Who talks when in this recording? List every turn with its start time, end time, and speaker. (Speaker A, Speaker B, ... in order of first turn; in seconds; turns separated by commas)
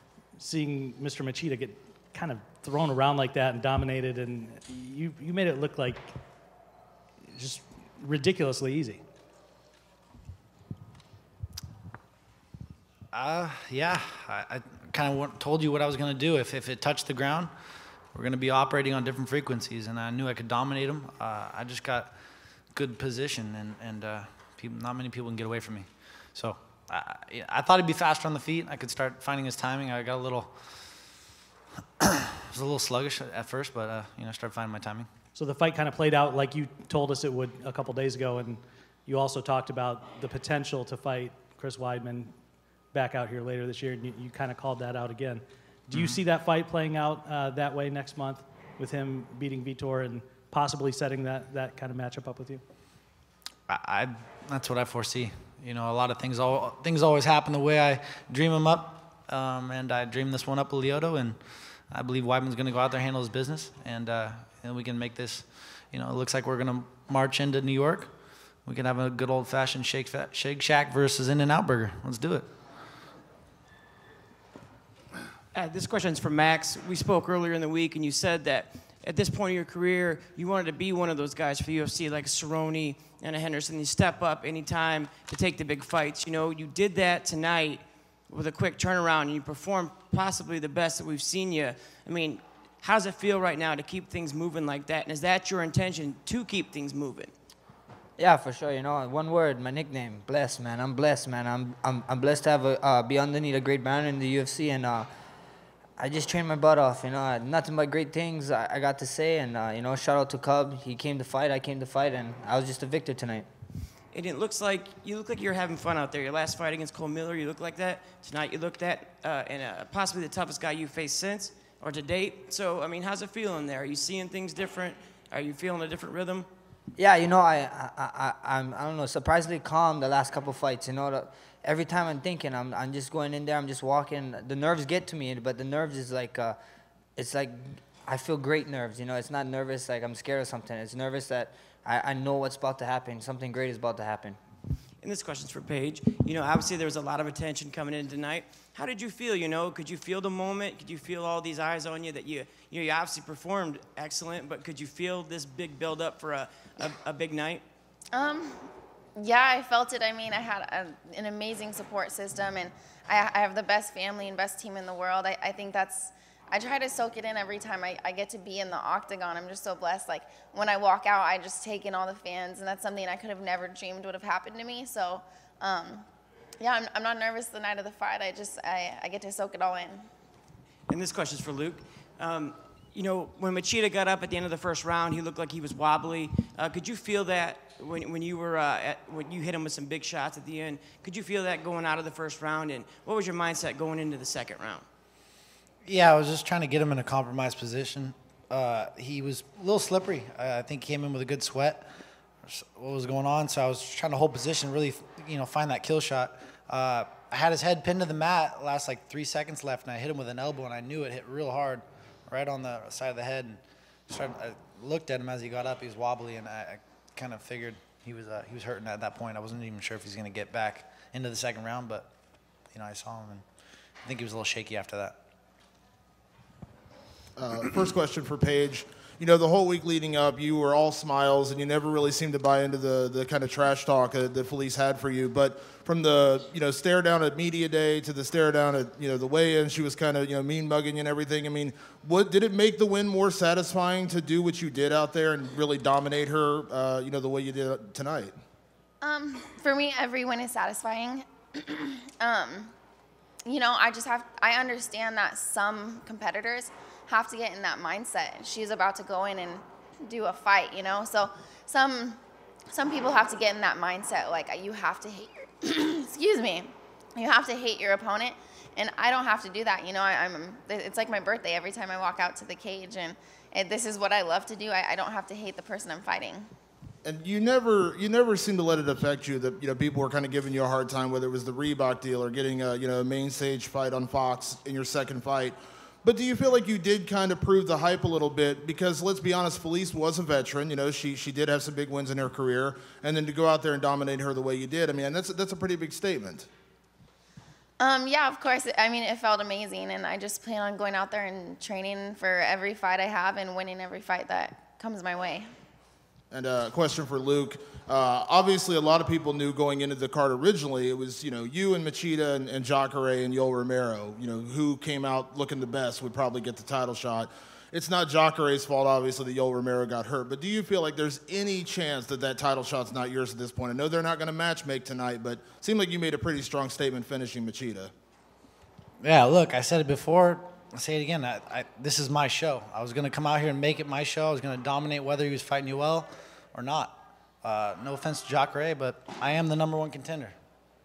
Speaker A: 0.4-6.1, Speaker A: 7.3-9.0, Speaker B: 13.1-17.5, Speaker B: 18.1-22.1, Speaker B: 22.7-30.5, Speaker B: 32.0-35.1, Speaker A: 35.3-42.3, Speaker A: 42.9-52.6, Speaker B: 45.9-46.2, Speaker B: 53.7-61.4, Speaker B: 61.9-68.1, Speaker B: 68.7-72.5, Speaker C: 75.5-97.3, Speaker D: 98.2-105.1, Speaker D: 106.0-113.5, Speaker C: 114.1-126.5, Speaker D: 127.0-136.6, Speaker D: 137.2-144.4, Speaker C: 145.0-157.6, Speaker E: 158.1-176.1, Speaker E: 176.6-180.1, Speaker C: 180.9-194.8, Speaker B: 195.8-201.9, Speaker B: 202.4-222.1, Speaker B: 222.7-223.4, Speaker B: 224.0-225.2, Speaker F: 227.4-248.3, Speaker E: 249.0-252.7, Speaker E: 253.4-276.5, Speaker F: 277.0-296.5, Speaker E: 297.8-305.5, Speaker F: 306.3-327.9, Speaker B: 329.0-340.3